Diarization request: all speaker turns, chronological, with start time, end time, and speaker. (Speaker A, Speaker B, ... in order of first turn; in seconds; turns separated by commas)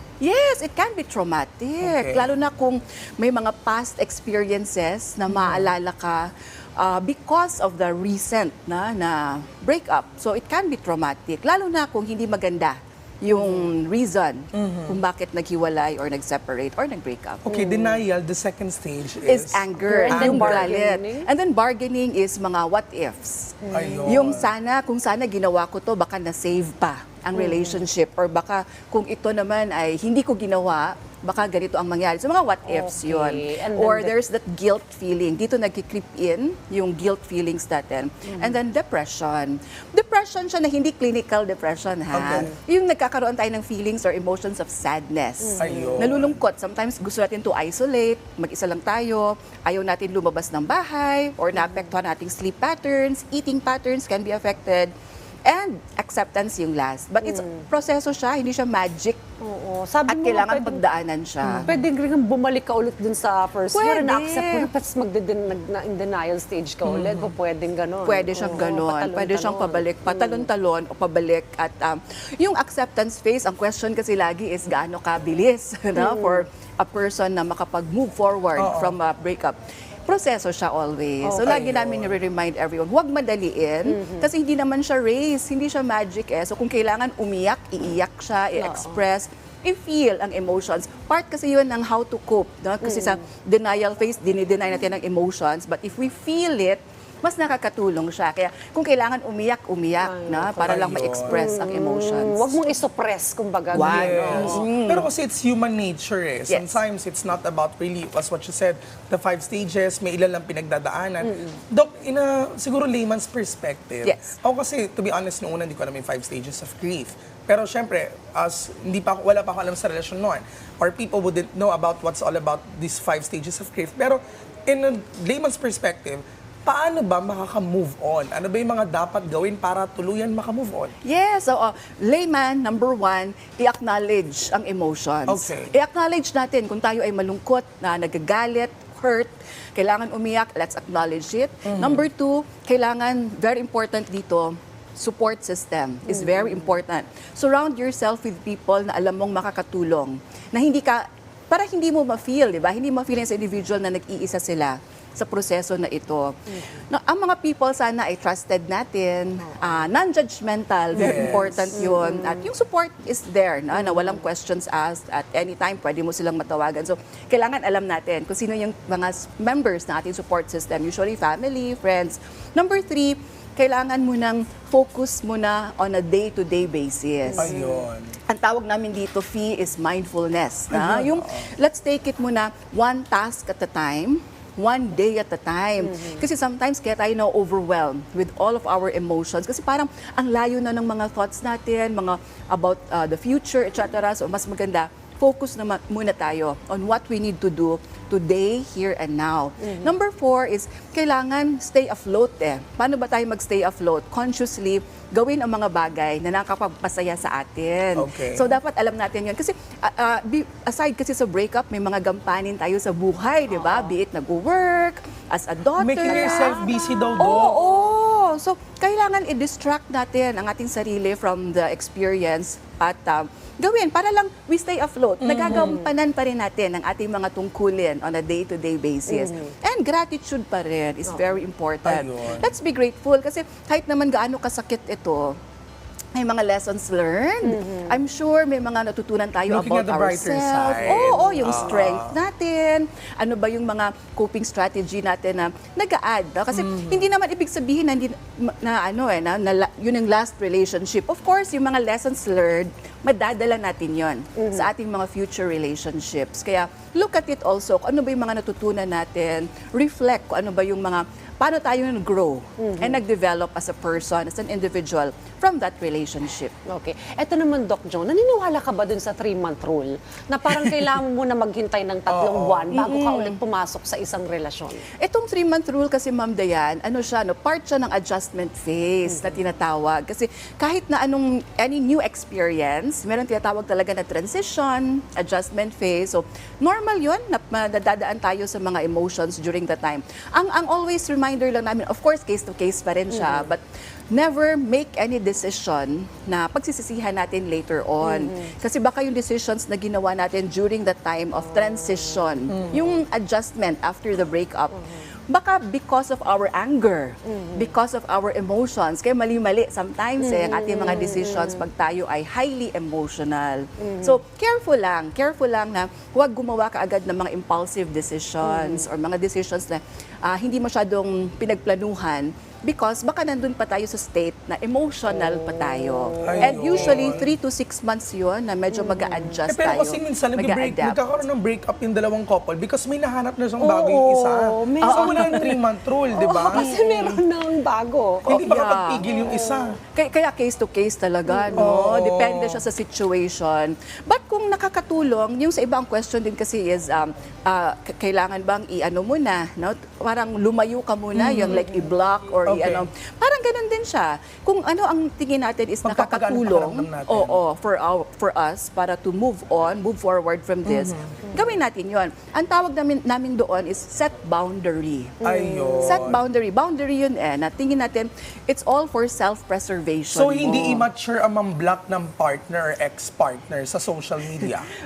Speaker A: 0.2-17.4, Speaker B: 1.8-2.3, Speaker B: 5.3-5.7, Speaker B: 14.5-15.0, Speaker B: 17.4-20.7, Speaker C: 17.5-18.0, Speaker A: 19.3-54.9, Speaker C: 19.9-21.3, Speaker C: 23.6-24.1, Speaker B: 23.7-24.5, Speaker C: 27.4-27.8, Speaker C: 32.6-34.1, Speaker B: 42.1-42.5, Speaker C: 45.4-46.1, Speaker B: 45.6-46.4, Speaker A: 55.5-59.2, Speaker C: 57.2-57.5, Speaker C: 59.4-60.8, Speaker A: 60.1-61.7, Speaker B: 61.4-61.8, Speaker C: 61.6-70.5, Speaker A: 63.7-64.7, Speaker B: 66.9-67.3, Speaker A: 68.0-102.5, Speaker C: 76.0-76.4, Speaker B: 78.5-79.0, Speaker C: 81.2-81.5, Speaker B: 81.4-82.1, Speaker C: 83.9-84.3, Speaker C: 88.6-89.0, Speaker C: 92.8-93.2, Speaker C: 100.0-104.6, Speaker B: 100.6-101.3, Speaker A: 103.7-105.1, Speaker B: 103.8-130.9, Speaker A: 106.5-106.8, Speaker A: 114.0-114.3, Speaker A: 131.0-177.6, Speaker B: 135.3-135.7, Speaker B: 141.7-142.0, Speaker B: 160.9-161.8, Speaker C: 161.0-162.4, Speaker C: 177.3-177.8, Speaker B: 177.4-178.2, Speaker A: 178.3-216.7, Speaker B: 180.7-181.5, Speaker C: 185.8-186.2, Speaker C: 199.6-199.9, Speaker B: 207.9-208.5, Speaker C: 213.5-213.9, Speaker B: 215.8-217.6, Speaker C: 216.1-217.2, Speaker A: 217.2-235.3, Speaker B: 225.2-225.8, Speaker C: 225.5-225.9, Speaker C: 229.1-229.5, Speaker B: 231.8-232.5, Speaker A: 236.2-266.5, Speaker C: 237.4-237.9, Speaker B: 239.5-242.2, Speaker B: 246.5-247.1, Speaker C: 254.4-254.7, Speaker C: 262.6-263.0, Speaker C: 266.7-274.9, Speaker B: 272.1-272.8, Speaker A: 272.7-273.4, Speaker A: 275.0-293.6, Speaker C: 293.1-293.5, Speaker A: 294.1-331.0, Speaker C: 298.0-298.5, Speaker B: 302.5-302.8, Speaker C: 307.3-307.6, Speaker C: 310.2-311.6, Speaker C: 313.8-314.2, Speaker C: 318.4-318.8, Speaker C: 325.1-327.0, Speaker B: 326.2-327.3, Speaker C: 328.7-329.3, Speaker B: 329.5-336.8, Speaker C: 333.6-335.6, Speaker A: 334.8-335.5, Speaker C: 336.1-338.3, Speaker A: 336.3-337.2, Speaker A: 338.2-339.2, Speaker B: 338.3-339.8, Speaker C: 339.0-339.7, Speaker A: 339.9-365.2, Speaker C: 341.3-341.7, Speaker B: 341.5-342.6, Speaker B: 351.1-351.6, Speaker B: 352.4-352.9, Speaker B: 355.8-357.4, Speaker B: 360.6-361.1, Speaker C: 365.2-366.1, Speaker B: 365.2-366.2, Speaker A: 365.8-370.9, Speaker B: 370.1-374.7